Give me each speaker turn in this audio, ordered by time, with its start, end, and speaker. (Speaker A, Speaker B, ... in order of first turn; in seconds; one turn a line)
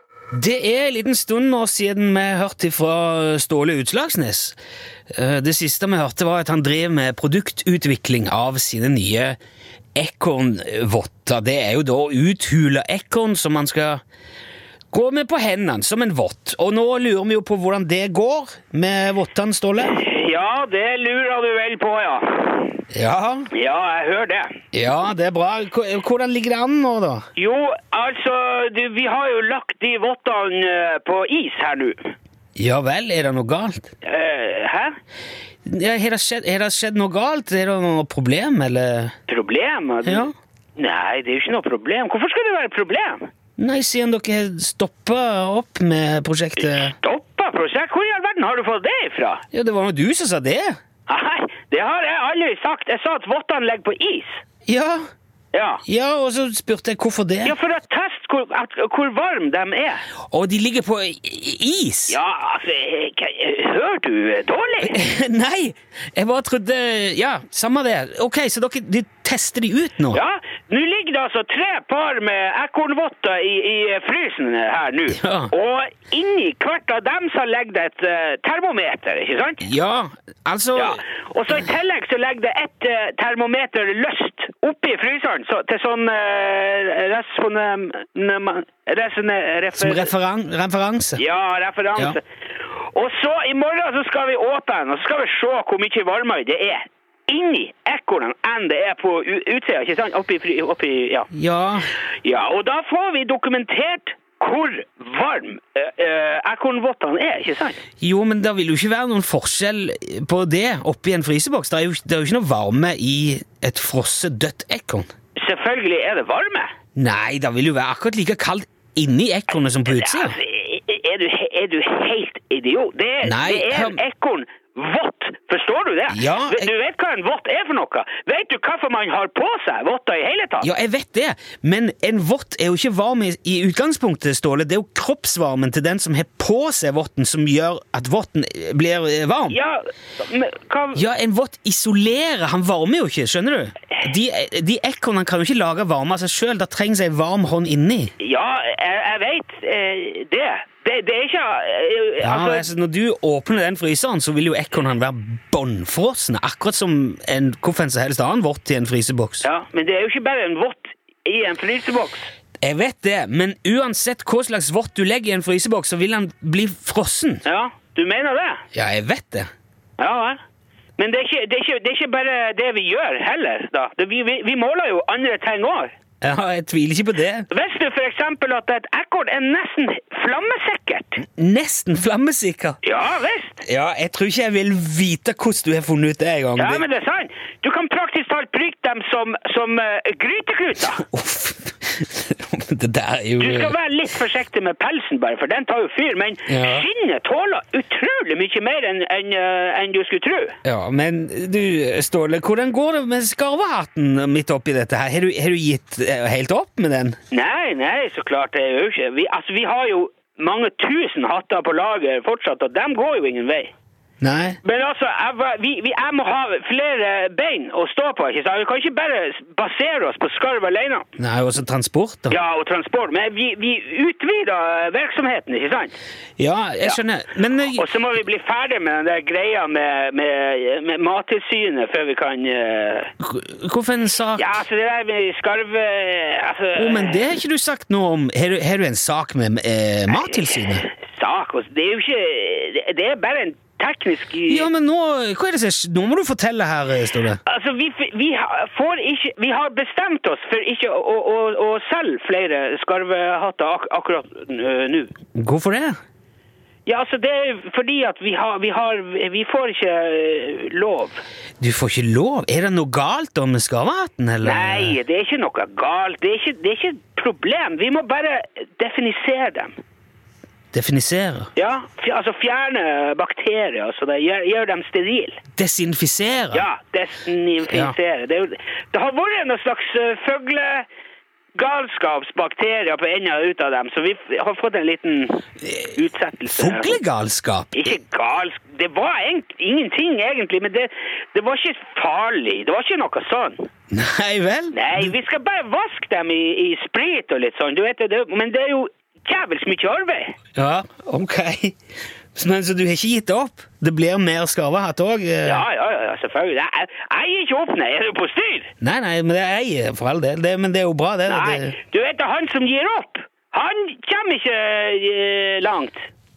Speaker A: 0.3-4.6
Speaker A: 5.1-9.4
Speaker A: 10.0-14.0
Speaker A: 14.9-20.0
Speaker B: 19.8-22.8
Speaker A: 22.9-23.5
Speaker B: 23.5-24.6
Speaker A: 24.7-27.2
Speaker B: 27.4-32.1
Speaker A: 32.6-33.9
Speaker B: 34.0-35.0
Speaker A: 35.6-39.1
Speaker B: 39.3-40.3
Speaker A: 40.0-40.3
Speaker B: 40.8-43.3
Speaker A: 43.6-46.9
Speaker B: 46.6-49.4
Speaker A: 49.5-50.8
Speaker B: 51.1-54.4
Speaker A: 54.7-55.0
Speaker B: 55.5-55.8
Speaker A: 55.9-57.6
Speaker B: 57.5-60.0
Speaker A: 60.3-62.2
Speaker B: 62.1-64.9
Speaker A: 64.8-70.2
Speaker B: 70.1-79.7
Speaker A: 75.1-75.5
Speaker A: 79.6-81.0
Speaker B: 80.8-90.1
Speaker A: 89.8-91.2
Speaker B: 91.2-92.2
Speaker B: 92.8-101.3
Speaker A: 101.3-101.9
Speaker B: 102.2-107.8
Speaker A: 108.0-115.1
Speaker B: 115.4-116.7
Speaker A: 117.0-120.4
Speaker B: 119.8-130.7
Speaker A: 123.2-124.0
Speaker A: 126.1-126.7
Speaker A: 130.6-139.6
Speaker B: 139.5-141.0
Speaker A: 140.9-148.1
Speaker B: 148.2-152.7
Speaker A: 152.2-159.5
Speaker B: 159.4-162.3
Speaker A: 162.6-167.4
Speaker B: 167.4-168.6
Speaker A: 168.7-169.5
Speaker B: 170.0-170.4
Speaker B: 171.0-175.9
Speaker A: 176.2-177.5
Speaker B: 177.5-181.2
Speaker A: 181.2-182.8
Speaker B: 182.8-183.6
Speaker A: 183.6-186.8
Speaker B: 186.6-191.1
Speaker A: 191.0-193.8
Speaker B: 193.4-200.6
Speaker A: 196.5-196.9
Speaker A: 200.6-207.2
Speaker B: 207.3-213.7
Speaker A: 214.2-214.6
Speaker B: 214.6-221.1
Speaker A: 221.2-222.4
Speaker B: 222.3-225.9
Speaker A: 226.4-227.8
Speaker B: 227.7-233.1
Speaker A: 233.2-234.6
Speaker B: 234.4-237.2
Speaker A: 236.8-240.8
Speaker B: 240.3-244.7
Speaker A: 244.5-247.4
Speaker B: 247.4-255.2
Speaker A: 255.3-256.0
Speaker B: 256.9-261.2
Speaker A: 261.6-265.0
Speaker B: 264.5-269.8
Speaker A: 270.7-271.5
Speaker B: 271.6-275.4
Speaker A: 275.5-276.7
Speaker B: 276.5-280.9
Speaker A: 277.7-278.0
Speaker B: 281.6-286.9
Speaker A: 286.5-287.9
Speaker B: 287.8-293.7
Speaker A: 293.9-295.1
Speaker B: 294.7-300.4
Speaker A: 300.5-301.8
Speaker A: 302.4-305.7
Speaker B: 305.4-308.7
Speaker A: 308.8-311.8
Speaker B: 311.3-316.1